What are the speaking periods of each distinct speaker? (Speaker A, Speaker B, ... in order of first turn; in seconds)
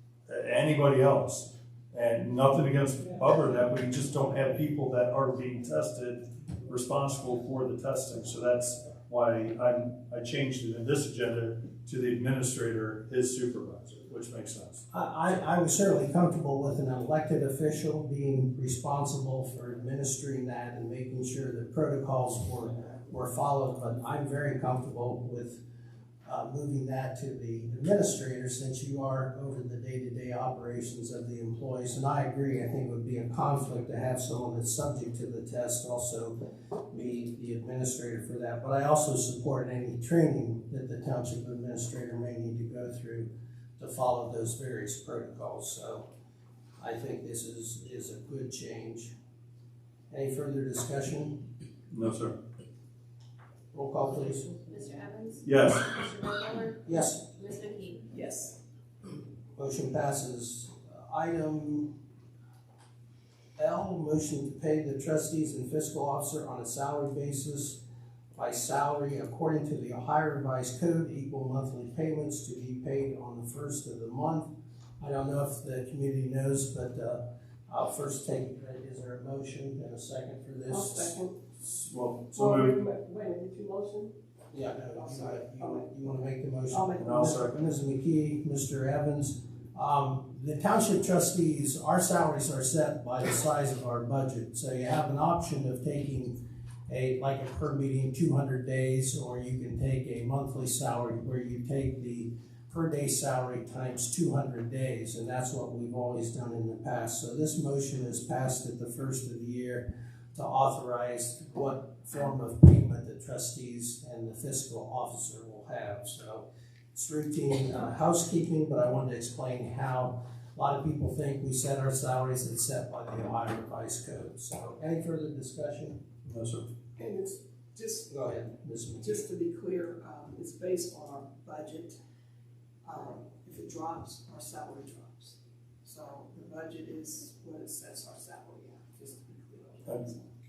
Speaker A: 0.3-14.8, 51.9-52.3, 55.4-56.0, 81.6-82.8, 87.0-87.5, 126.2-126.7
Speaker B: 14.9-25.6, 26.2-36.3, 36.9-46.0, 46.8-49.1, 50.1-51.3, 53.7-54.6, 56.9-57.2, 59.5-61.9, 63.6-67.8, 68.3-81.1, 84.5-96.3, 96.9-126.0, 128.1-129.2
Speaker C: 54.7-58.1
Speaker D: 58.1-58.6, 80.7-81.3, 82.3-84.1, 85.0-85.8, 86.7-87.2, 127.0-128.1, 129.0-131.9, 132.8-140.2